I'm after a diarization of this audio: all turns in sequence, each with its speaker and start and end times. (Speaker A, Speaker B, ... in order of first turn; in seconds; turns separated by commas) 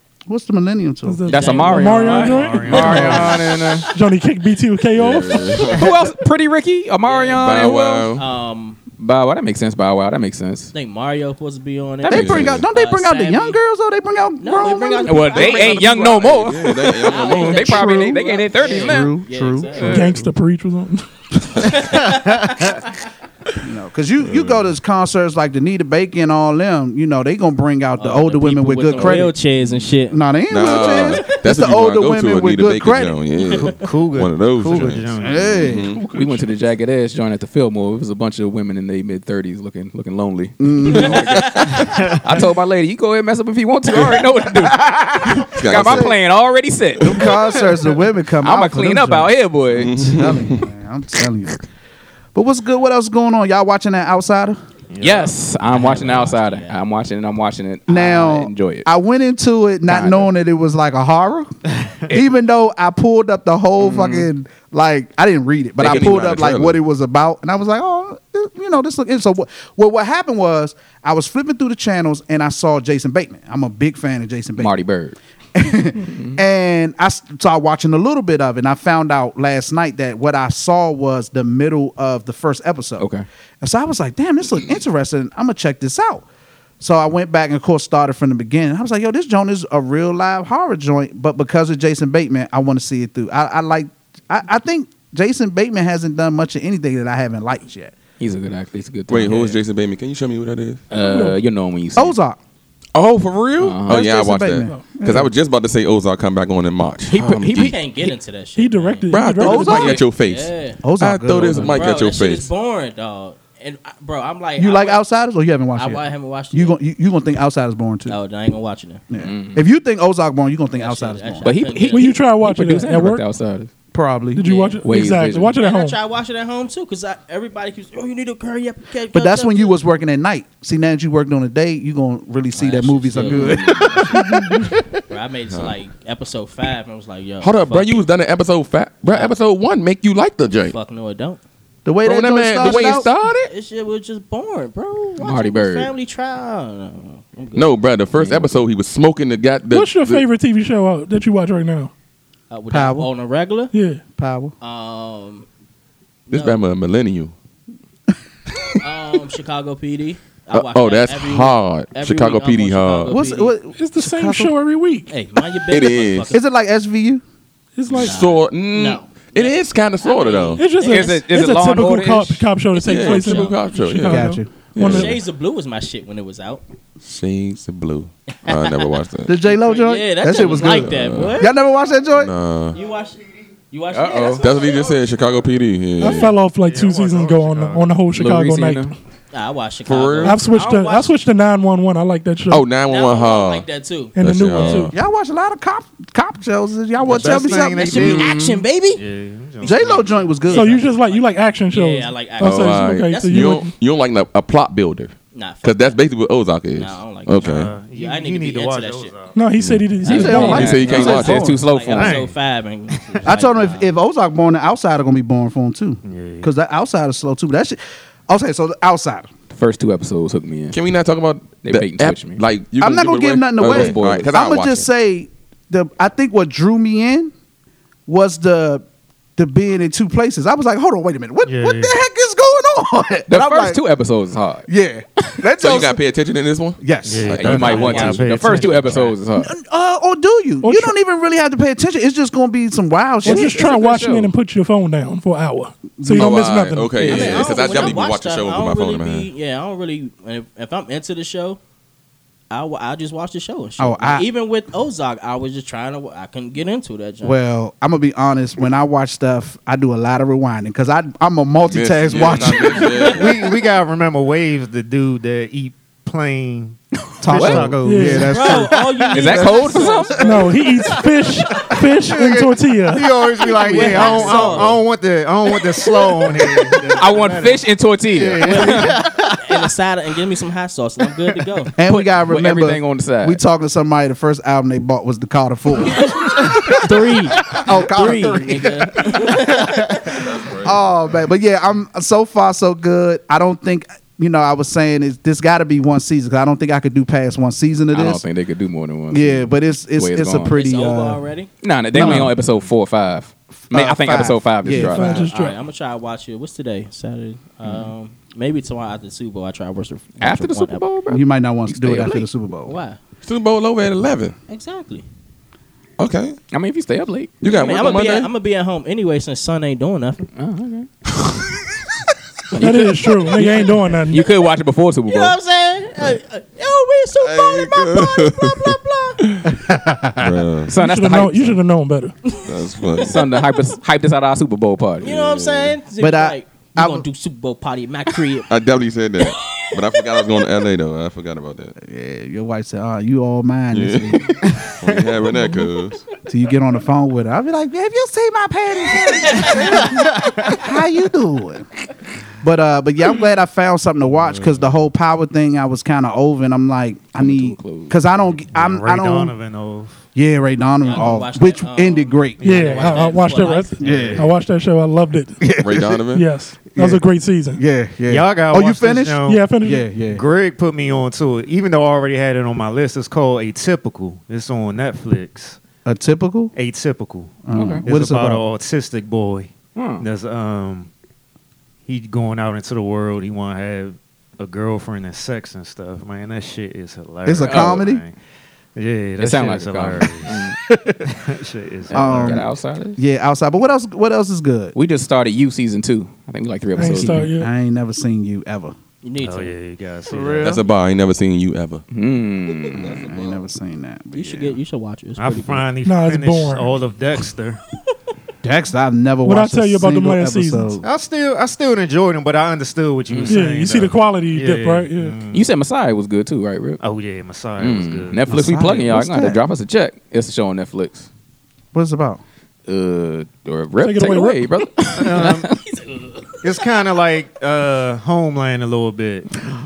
Speaker A: 0.3-1.2, Speaker B: 1.1-3.2, Speaker C: 1.3-3.8, Speaker D: 1.3-3.9, Speaker E: 2.0-3.4, Speaker B: 3.9-5.8, Speaker F: 5.0-5.9, Speaker D: 5.7-8.1, Speaker C: 7.0-8.8, Speaker F: 7.4-8.2, Speaker D: 9.0-10.7, Speaker C: 10.7-13.6, Speaker A: 12.1-15.6, Speaker F: 12.1-12.6, Speaker C: 14.4-20.1, Speaker D: 15.1-19.1, Speaker F: 15.6-17.7, Speaker A: 17.6-20.2, Speaker D: 19.8-20.1, Speaker B: 19.8-21.1, Speaker C: 21.6-22.9, Speaker A: 23.6-29.4, Speaker C: 28.0-31.3, Speaker A: 30.1-33.2, Speaker F: 30.5-36.0, Speaker E: 33.5-35.7, Speaker A: 35.2-35.9, Speaker B: 35.9-36.5, Speaker D: 36.1-47.4, Speaker A: 40.6-41.3, Speaker C: 41.0-42.0, Speaker F: 41.1-41.4, Speaker A: 44.4-46.2, Speaker F: 45.5-46.1, Speaker A: 47.0-51.6, Speaker D: 48.4-50.0, Speaker F: 49.7-50.6, Speaker A: 52.4-54.6, Speaker E: 54.9-55.3, Speaker D: 55.0-58.9, Speaker C: 55.7-56.8, Speaker A: 57.9-74.7, Speaker D: 59.9-60.3, Speaker D: 63.8-64.3, Speaker F: 65.8-66.8, Speaker D: 65.8-66.2, Speaker D: 74.6-75.2, Speaker A: 75.5-83.1, Speaker D: 83.0-83.2, Speaker A: 83.6-86.2, Speaker A: 86.8-97.9, Speaker D: 98.2-99.6, Speaker F: 99.1-100.8, Speaker D: 100.9-102.2, Speaker B: 100.9-101.4, Speaker A: 102.0-102.4, Speaker F: 102.9-107.8, Speaker D: 103.6-104.0, Speaker A: 103.9-105.3, Speaker B: 104.7-104.9, Speaker D: 107.1-108.0, Speaker C: 107.3-109.1, Speaker B: 108.6-110.0, Speaker F: 109.1-112.5, Speaker A: 109.4-110.0, Speaker C: 109.9-110.8, Speaker A: 110.8-111.8, Speaker D: 111.4-111.7, Speaker C: 111.5-115.0, Speaker A: 114.6-118.2, Speaker C: 115.8-116.8, Speaker C: 118.1-119.0, Speaker A: 119.1-121.5, Speaker D: 119.2-119.6, Speaker C: 120.7-122.2, Speaker D: 121.4-123.7, Speaker B: 121.8-123.2, Speaker A: 123.9-124.5, Speaker B: 124.4-126.0, Speaker C: 124.4-124.8, Speaker D: 124.8-125.5, Speaker C: 125.5-129.8, Speaker A: 129.1-134.8, Speaker C: 132.5-134.1, Speaker D: 133.3-133.8, Speaker B: 134.2-134.6, Speaker C: 135.1-138.0, Speaker F: 137.4-140.8, Speaker C: 139.1-139.4, Speaker C: 140.7-141.4, Speaker A: 141.8-143.1, Speaker F: 142.1-143.5, Speaker C: 142.6-147.8, Speaker D: 145.2-145.9, Speaker F: 147.6-150.2, Speaker D: 148.2-148.6, Speaker B: 149.7-151.9, Speaker C: 152.5-153.7, Speaker A: 152.7-153.1, Speaker B: 153.7-154.0, Speaker A: 154.2-154.5, Speaker C: 154.6-155.5, Speaker C: 156.3-156.6, Speaker F: 156.3-157.3, Speaker C: 158.8-163.6, Speaker F: 160.5-163.1, Speaker A: 163.1-164.5, Speaker B: 163.8-165.1, Speaker C: 165.1-166.4, Speaker F: 165.7-166.3, Speaker A: 166.3-167.2, Speaker B: 167.8-168.2, Speaker F: 167.9-170.6, Speaker C: 167.9-171.3, Speaker B: 170.6-175.2, Speaker D: 170.8-172.5, Speaker F: 172.8-175.2, Speaker D: 173.0-173.5, Speaker C: 173.1-173.5, Speaker A: 174.0-174.5, Speaker C: 174.8-176.6, Speaker F: 177.0-179.4, Speaker C: 178.5-181.6, Speaker A: 179.3-182.3, Speaker F: 180.4-181.4, Speaker F: 182.2-182.8, Speaker C: 182.7-185.2, Speaker D: 183.9-184.5, Speaker F: 184.3-186.4, Speaker B: 186.0-189.0, Speaker E: 186.4-188.0, Speaker D: 188.1-188.9, Speaker C: 189.3-191.1, Speaker F: 189.9-190.4, Speaker B: 190.2-192.7, Speaker F: 192.5-193.7, Speaker C: 192.9-194.7, Speaker B: 194.2-194.9, Speaker F: 194.2-194.9, Speaker A: 194.9-198.3, Speaker E: 197.0-198.4, Speaker C: 197.1-199.0, Speaker D: 198.0-198.6, Speaker E: 198.9-200.5, Speaker C: 199.6-203.6, Speaker A: 199.6-200.7, Speaker B: 200.5-203.7, Speaker F: 202.4-207.7, Speaker C: 205.3-206.0, Speaker C: 206.7-209.2, Speaker E: 207.4-209.4, Speaker B: 209.3-210.8, Speaker F: 209.6-211.5, Speaker D: 210.0-212.3, Speaker A: 210.1-211.7, Speaker C: 210.8-213.9, Speaker E: 211.9-212.3, Speaker E: 212.9-213.3, Speaker A: 213.2-219.3, Speaker E: 216.0-216.5, Speaker D: 219.5-220.8, Speaker F: 220.7-224.9, Speaker D: 221.6-222.4, Speaker A: 222.8-227.3, Speaker D: 223.6-224.3, Speaker A: 228.1-228.8, Speaker A: 229.4-233.8, Speaker E: 231.4-231.9, Speaker D: 233.3-234.7, Speaker A: 234.7-236.0, Speaker F: 235.6-238.2, Speaker A: 236.8-237.9, Speaker E: 237.1-239.2, Speaker D: 237.3-239.5, Speaker C: 237.7-238.5, Speaker A: 239.4-243.7, Speaker B: 240.6-240.9, Speaker D: 243.2-244.3, Speaker B: 243.2-247.9, Speaker A: 246.0-246.4, Speaker F: 246.2-249.3, Speaker C: 247.0-251.6, Speaker C: 252.5-257.4, Speaker A: 253.8-254.3, Speaker A: 257.2-263.2, Speaker F: 261.7-263.4, Speaker C: 262.2-263.2, Speaker E: 262.9-269.6, Speaker D: 267.2-267.7, Speaker A: 267.2-268.8, Speaker B: 267.8-268.3, Speaker C: 268.2-270.7, Speaker D: 269.1-270.5, Speaker A: 269.3-269.9, Speaker B: 270.2-273.1, Speaker E: 270.6-279.6, Speaker C: 273.4-274.8, Speaker A: 274.2-274.6, Speaker A: 276.3-277.0, Speaker D: 276.9-278.9, Speaker C: 278.4-281.7, Speaker A: 281.8-289.3, Speaker D: 281.9-283.4, Speaker C: 285.9-290.2, Speaker F: 290.1-290.8, Speaker A: 290.1-298.2, Speaker D: 297.9-300.6, Speaker A: 299.1-301.2, Speaker C: 300.5-301.5, Speaker D: 301.6-305.2, Speaker A: 301.9-302.4, Speaker B: 302.0-302.3, Speaker A: 303.6-305.3, Speaker B: 304.7-305.6, Speaker C: 305.0-310.8, Speaker D: 310.2-312.3, Speaker A: 311.1-312.8, Speaker C: 312.7-313.0, Speaker F: 313.2-314.4, Speaker C: 314.5-315.1, Speaker F: 316.0-316.4, Speaker D: 316.5-317.3, Speaker F: 317.4-318.3, Speaker C: 317.4-320.3, Speaker D: 320.4-320.9, Speaker D: 322.5-325.4, Speaker B: 322.6-324.3, Speaker C: 325.1-329.3, Speaker F: 327.2-329.5, Speaker A: 329.5-330.4, Speaker F: 330.2-330.7, Speaker D: 330.7-331.6, Speaker B: 330.8-332.1, Speaker C: 332.3-333.4, Speaker F: 332.4-333.2, Speaker D: 333.0-335.1, Speaker F: 335.0-335.8, Speaker C: 335.0-338.5, Speaker A: 336.0-337.1, Speaker F: 338.5-341.7, Speaker C: 339.2-340.4, Speaker A: 341.8-344.4, Speaker F: 343.7-346.0, Speaker E: 344.4-345.0, Speaker A: 346.3-351.7, Speaker C: 349.1-349.9, Speaker E: 350.0-350.5, Speaker A: 352.4-359.4, Speaker E: 354.2-354.7, Speaker D: 357.2-358.0, Speaker E: 358.5-360.0, Speaker A: 360.1-362.4, Speaker C: 360.8-363.8, Speaker E: 362.4-364.4, Speaker B: 362.4-365.5, Speaker A: 363.8-364.3, Speaker A: 365.4-366.0, Speaker F: 365.6-366.3, Speaker B: 366.1-367.6, Speaker A: 366.8-367.1, Speaker A: 367.6-370.2, Speaker E: 368.1-369.5, Speaker B: 369.2-369.9, Speaker E: 370.0-375.6, Speaker A: 375.9-376.5, Speaker E: 376.6-380.9, Speaker A: 377.4-378.5, Speaker D: 377.5-377.9, Speaker D: 379.8-380.0, Speaker E: 381.9-388.2, Speaker A: 387.3-388.0, Speaker D: 387.4-387.8, Speaker E: 388.8-392.5, Speaker D: 389.2-390.6, Speaker A: 390.7-391.0, Speaker D: 391.9-393.0, Speaker A: 391.9-394.8, Speaker D: 394.8-397.3, Speaker B: 396.8-397.5, Speaker A: 396.9-398.8, Speaker C: 399.0-399.6, Speaker E: 399.2-400.6, Speaker A: 400.1-400.6, Speaker F: 400.4-401.8, Speaker D: 401.9-403.0, Speaker C: 402.6-403.4, Speaker A: 402.9-404.6, Speaker C: 404.1-405.6, Speaker E: 405.2-407.6, Speaker B: 405.8-406.8, Speaker A: 408.4-410.8, Speaker B: 409.2-410.8, Speaker E: 410.8-415.5, Speaker D: 413.1-413.4, Speaker B: 413.3-415.1, Speaker D: 415.3-416.8, Speaker E: 416.8-418.3, Speaker D: 417.6-421.1, Speaker A: 418.3-419.4, Speaker A: 421.7-422.2, Speaker D: 422.7-425.6, Speaker B: 423.8-424.9, Speaker E: 424.9-425.6, Speaker C: 425.5-426.5, Speaker E: 426.4-429.3